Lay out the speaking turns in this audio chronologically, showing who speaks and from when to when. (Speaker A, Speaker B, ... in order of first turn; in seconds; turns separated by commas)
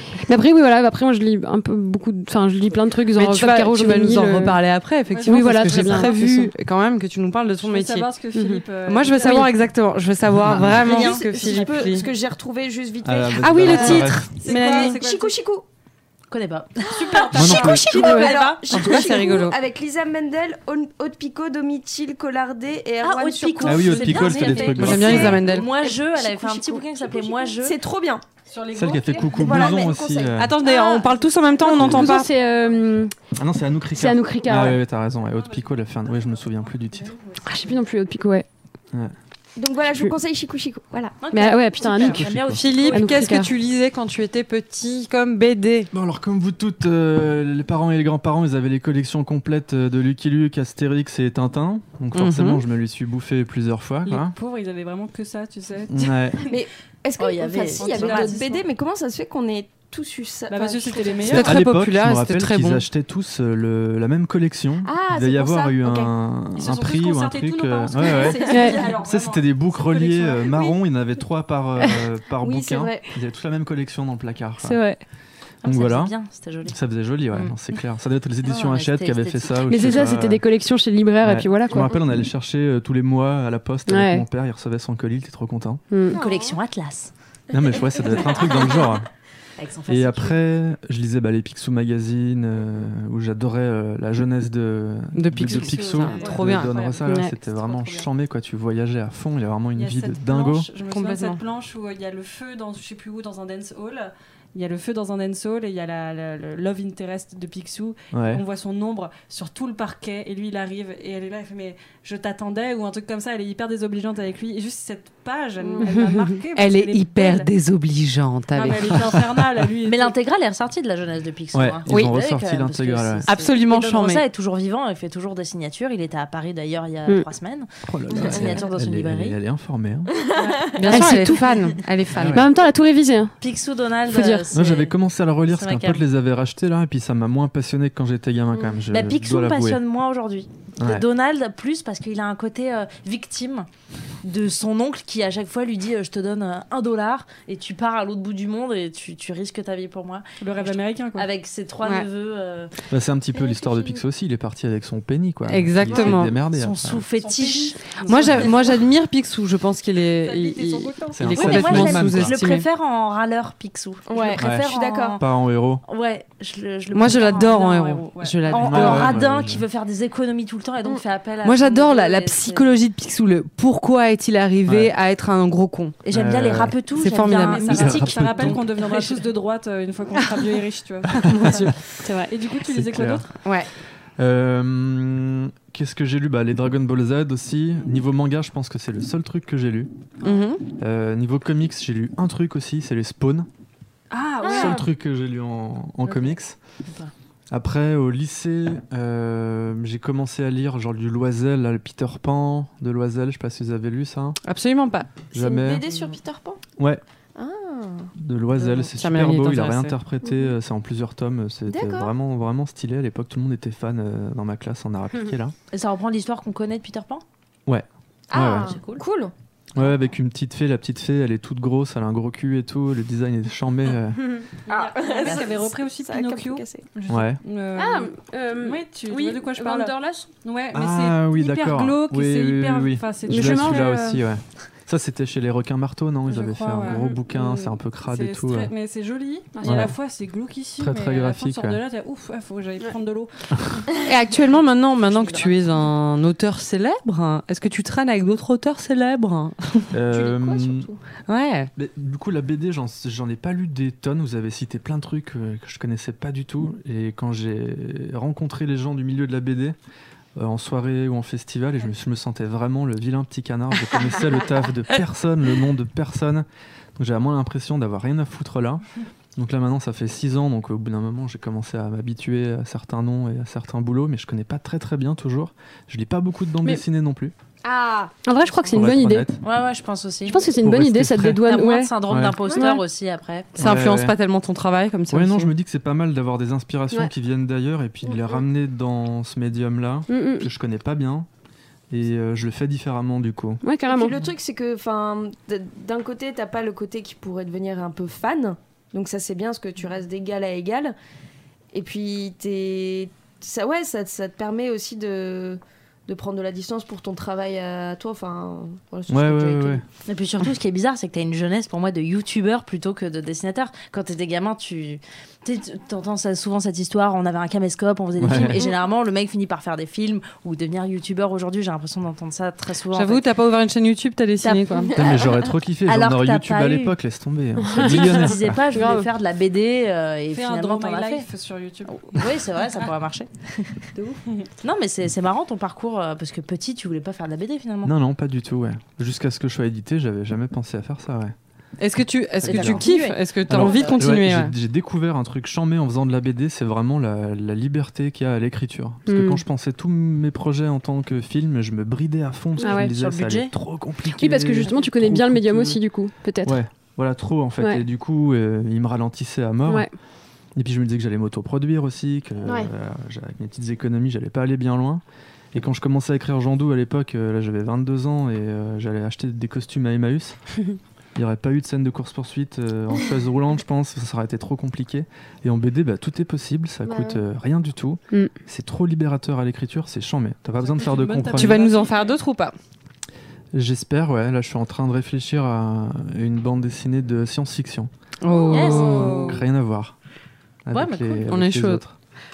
Speaker A: 0.1-4.6, Speaker B: 3.1-8.1, Speaker C: 5.1-6.2, Speaker A: 5.2-6.5, Speaker C: 7.6-9.6, Speaker A: 8.3-8.6, Speaker B: 8.8-12.1, Speaker D: 10.3-10.8, Speaker E: 10.7-15.6, Speaker F: 10.8-11.8, Speaker D: 13.0-14.3, Speaker B: 13.4-14.9, Speaker A: 13.7-14.2, Speaker C: 13.8-15.4, Speaker F: 16.3-19.0, Speaker C: 16.8-18.3, Speaker E: 16.9-28.2, Speaker D: 17.3-18.0, Speaker A: 18.0-18.3, Speaker B: 18.2-19.6, Speaker F: 23.0-27.8, Speaker D: 23.6-25.4, Speaker C: 23.9-25.2, Speaker B: 24.7-25.7, Speaker C: 28.5-29.8, Speaker D: 28.7-30.5, Speaker E: 29.2-31.2, Speaker B: 30.4-32.3, Speaker A: 31.6-33.1, Speaker D: 31.7-32.2, Speaker D: 33.4-37.1, Speaker A: 33.9-34.8, Speaker C: 37.1-37.8, Speaker A: 37.4-38.5, Speaker E: 39.5-41.2, Speaker F: 41.2-43.1, Speaker A: 41.3-42.3, Speaker D: 42.1-42.6, Speaker B: 42.5-45.9, Speaker A: 42.9-43.5, Speaker D: 45.9-54.3, Speaker B: 52.1-52.6, Speaker C: 54.1-56.5, Speaker D: 55.9-56.4, Speaker E: 56.5-61.4, Speaker F: 57.2-58.5, Speaker C: 57.7-58.6, Speaker C: 60.5-61.5, Speaker B: 61.2-62.8, Speaker D: 61.3-74.9, Speaker E: 64.8-66.1, Speaker C: 66.5-70.7, Speaker E: 68.4-68.8, Speaker A: 68.5-68.9, Speaker E: 72.4-73.1, Speaker A: 74.6-75.0, Speaker F: 75.6-76.8, Speaker D: 75.6-76.1, Speaker D: 76.7-80.4, Speaker F: 78.4-80.1, Speaker A: 79.7-82.0, Speaker D: 81.2-85.8, Speaker A: 83.9-84.2, Speaker A: 85.9-86.2, Speaker E: 86.1-86.6, Speaker F: 86.1-87.1, Speaker D: 87.5-89.1, Speaker E: 87.9-88.8, Speaker F: 89.6-90.4, Speaker D: 89.9-100.7, Speaker B: 95.1-96.8, Speaker C: 95.5-98.1, Speaker A: 97.0-97.3, Speaker C: 99.7-117.5, Speaker B: 100.9-101.4, Speaker D: 108.1-108.4, Speaker A: 115.8-116.4, Speaker B: 116.5-119.2, Speaker C: 118.5-120.1, Speaker F: 119.8-129.4, Speaker D: 121.5-123.3, Speaker B: 121.9-122.1, Speaker B: 123.3-124.2, Speaker D: 127.8-130.1, Speaker E: 130.2-131.0, Speaker C: 130.3-130.8, Speaker F: 130.7-131.8, Speaker B: 130.8-132.4, Speaker A: 130.9-131.4, Speaker D: 132.1-132.5, Speaker A: 132.3-133.3, Speaker F: 133.4-134.9, Speaker A: 134.1-134.5, Speaker D: 134.5-139.8, Speaker F: 135.5-136.0, Speaker F: 138.9-143.7, Speaker D: 140.8-141.0, Speaker F: 144.2-152.7, Speaker C: 150.4-151.3, Speaker D: 152.9-157.0, Speaker B: 155.5-156.4, Speaker F: 155.8-158.3, Speaker C: 157.1-158.8, Speaker B: 158.0-162.7, Speaker C: 160.1-161.6, Speaker D: 161.1-162.3, Speaker F: 161.3-165.2, Speaker E: 164.1-165.2, Speaker D: 164.4-165.8, Speaker F: 165.8-167.8, Speaker B: 166.9-169.2, Speaker C: 167.1-168.7, Speaker F: 168.4-172.7, Speaker D: 168.6-169.6, Speaker B: 171.4-176.0, Speaker D: 174.7-174.9, Speaker F: 176.0-179.1, Speaker D: 176.1-176.8, Speaker B: 177.0-177.9, Speaker C: 177.2-183.3, Speaker D: 177.7-178.6, Speaker D: 181.1-181.8, Speaker D: 182.6-183.2, Speaker B: 183.4-183.7, Speaker D: 184.2-189.9, Speaker B: 190.2-190.6, Speaker D: 190.8-193.5, Speaker C: 194.1-194.8, Speaker D: 194.5-196.6, Speaker F: 196.8-197.1, Speaker D: 197.5-204.4, Speaker B: 204.4-205.1, Speaker D: 205.3-205.8, Speaker E: 205.3-206.6, Speaker D: 206.8-207.0, Speaker E: 207.3-208.1, Speaker D: 208.2-215.5, Speaker B: 208.6-209.9, Speaker E: 210.2-210.5, Speaker E: 211.7-212.1, Speaker F: 215.7-217.2, Speaker D: 217.7-218.8, Speaker E: 218.3-219.3, Speaker F: 218.4-219.0, Speaker D: 219.7-224.4, Speaker C: 224.7-234.2, Speaker E: 224.7-226.9, Speaker D: 227.1-227.4, Speaker A: 227.8-230.3, Speaker D: 230.7-238.7, Speaker A: 233.2-233.9, Speaker C: 236.3-243.8, Speaker D: 239.6-239.9, Speaker D: 240.8-241.8, Speaker B: 243.9-249.9, Speaker D: 249.9-250.9, Speaker E: 250.1-251.0, Speaker B: 251.3-251.7, Speaker D: 251.8-259.7, Speaker D: 260.4-268.8, Speaker D: 269.4-277.3, Speaker E: 277.6-278.1, Speaker A: 278.2-279.3, Speaker D: 278.6-279.4, Speaker F: 279.4-280.5, Speaker A: 280.3-282.8, Speaker D: 280.6-281.4, Speaker F: 281.4-283.6, Speaker D: 282.1-282.4, Speaker D: 283.6-284.1, Speaker B: 283.6-285.5, Speaker D: 285.1-291.3, Speaker A: 290.1-290.5, Speaker D: 291.9-293.6, Speaker A: 293.6-294.1, Speaker E: 293.9-300.9, Speaker E: 301.7-309.8, Speaker D: 309.1-309.8, Speaker F: 310.1-323.2, Speaker D: 318.2-318.6, Speaker B: 322.9-324.9, Speaker F: 324.4-325.3, Speaker D: 324.9-328.6, Speaker E: 324.9-325.3, Speaker F: 325.8-326.9, Speaker A: 327.6-329.1, Speaker F: 327.7-331.3, Speaker C: 330.3-332.9, Speaker F: 332.0-333.9, Speaker C: 333.9-334.5, Speaker F: 334.6-337.9, Speaker D: 337.8-341.3, Speaker B: 341.8-344.5, Speaker D: 342.4-342.9, Speaker F: 342.4-344.0, Speaker D: 343.5-355.8, Speaker A: 349.1-349.4, Speaker A: 352.6-352.9, Speaker F: 352.6-353.5, Speaker A: 354.1-356.6, Speaker D: 356.4-359.9, Speaker D: 360.6-365.0, Speaker D: 365.5-370.4, Speaker D: 371.1-381.6, Speaker C: 380.6-382.2, Speaker B: 381.3-382.5, Speaker D: 383.5-387.9, Speaker B: 388.2-389.4, Speaker C: 388.4-389.3, Speaker F: 388.4-389.4, Speaker D: 388.8-389.9, Speaker D: 390.6-391.9, Speaker F: 390.7-391.3, Speaker B: 391.3-391.8